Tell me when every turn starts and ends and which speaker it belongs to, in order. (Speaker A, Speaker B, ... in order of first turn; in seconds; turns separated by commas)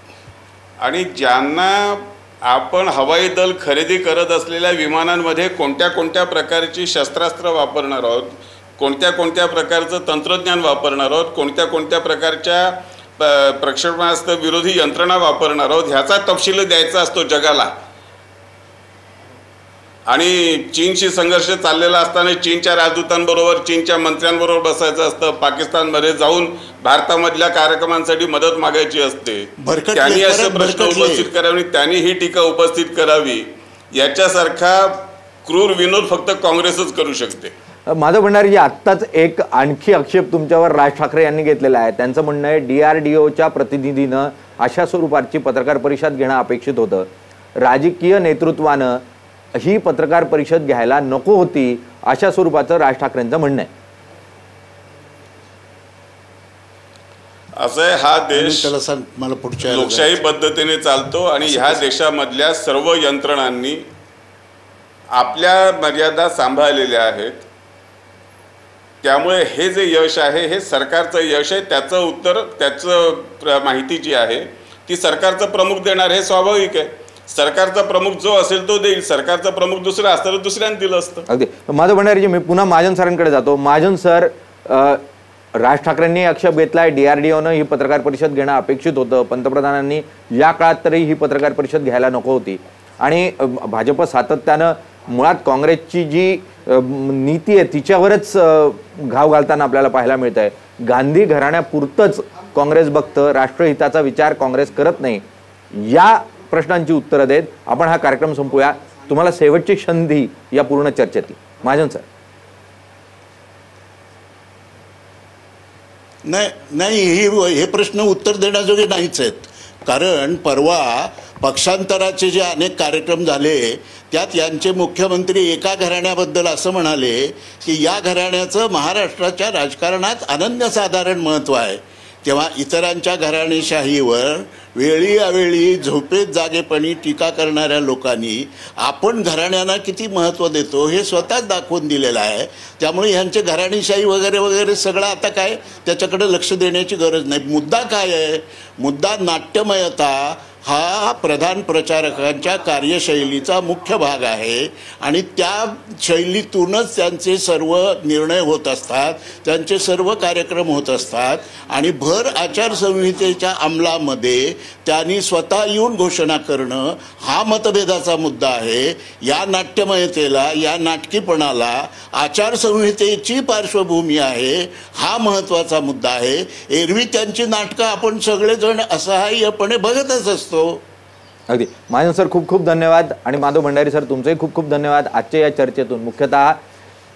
Speaker A: 0.8-17.7, Speaker A: 20.1-37.5, Speaker B: 29.6-31.3, Speaker C: 37.9-47.1, Speaker C: 47.6-49.0, Speaker C: 49.5-53.7, Speaker A: 57.6-58.7, Speaker B: 58.3-60.1, Speaker A: 59.6-63.8, Speaker B: 61.4-61.9, Speaker A: 65.1-67.5, Speaker A: 69.0-81.3, Speaker C: 81.3-85.0, Speaker C: 85.6-112.1, Speaker B: 116.2-180.8, Speaker C: 181.5-186.6